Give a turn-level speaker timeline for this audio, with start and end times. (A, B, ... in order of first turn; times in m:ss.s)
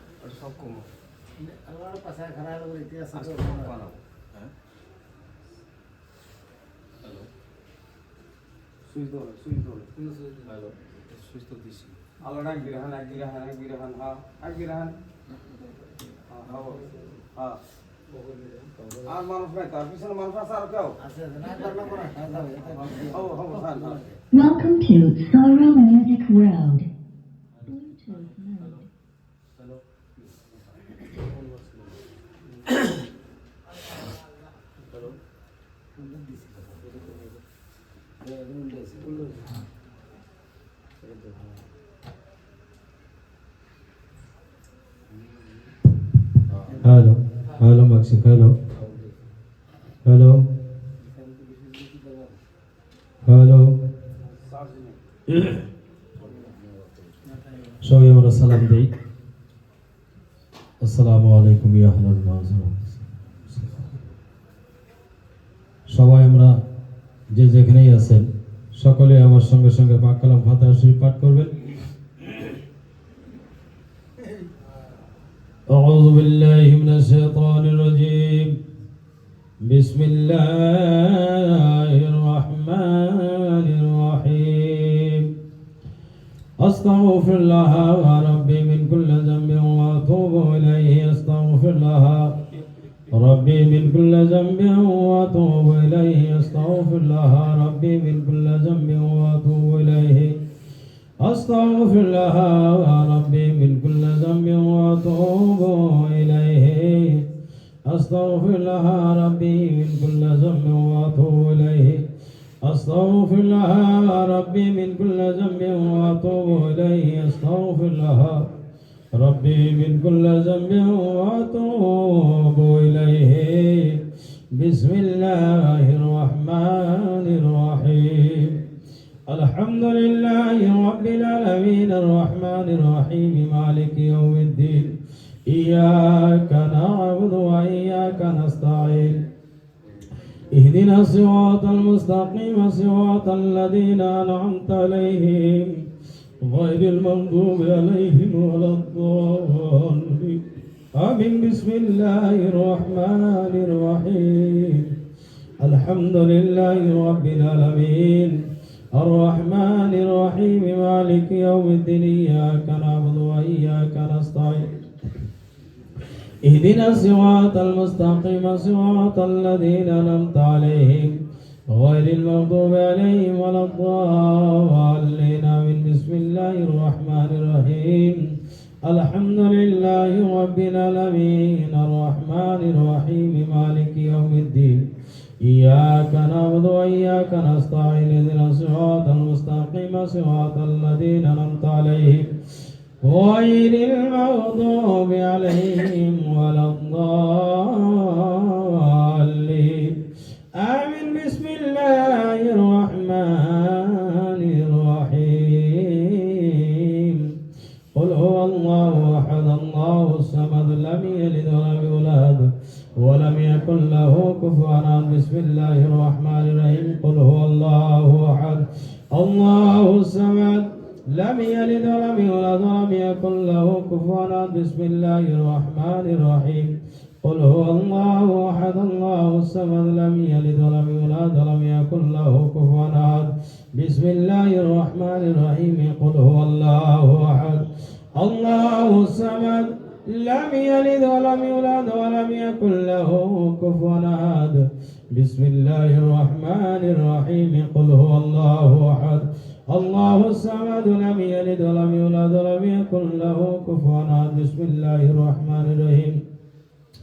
0:00.2-0:00.8 A
0:01.4-0:03.8 B
0:03.2-0:04.0 A
0:08.9-0:10.0 A
0:10.0-0:10.5 B
0:12.2-0:15.0 A
0:16.3-0:17.6 A
0:18.2-0:19.0 B
0:19.1-0:21.0 A
0:21.0-0:24.2 B
0:23.1-0:24.0 A
0:24.3-0:26.9 C
0:27.6-0:28.9 C
0:36.0-0:37.2 B
0:38.2-0:39.5 B
0:47.6-0:48.6 D
0:51.2-0:52.3 B
0:53.3-0:53.8 D
0:55.3-0:55.6 D
0:57.8-0:58.9 D
1:00.8-1:03.0 D
1:03.5-1:03.8 D
1:05.9-1:06.6 D
1:07.3-1:11.5 D
1:15.7-1:18.6 D
1:19.7-1:25.3 D
1:26.6-1:32.4 D
1:33.2-1:40.4 D
1:41.2-1:47.3 D
1:47.9-1:52.1 D
1:52.6-1:58.5 D
1:59.2-2:04.0 D
2:04.6-2:08.6 D
2:09.3-2:14.9 D
2:15.5-2:19.2 D
2:20.5-2:25.8 D
2:26.5-2:30.4 D
2:31.0-2:34.9 D
2:35.6-2:38.4 D
2:39.0-2:44.7 D
2:46.4-2:51.2 D
2:51.7-2:58.3 D
2:58.9-3:04.9 D
3:05.4-3:12.3 D
3:13.0-3:20.0 D
3:20.6-3:27.3 D
3:28.0-3:57.6 D
3:58.2-4:16.2 D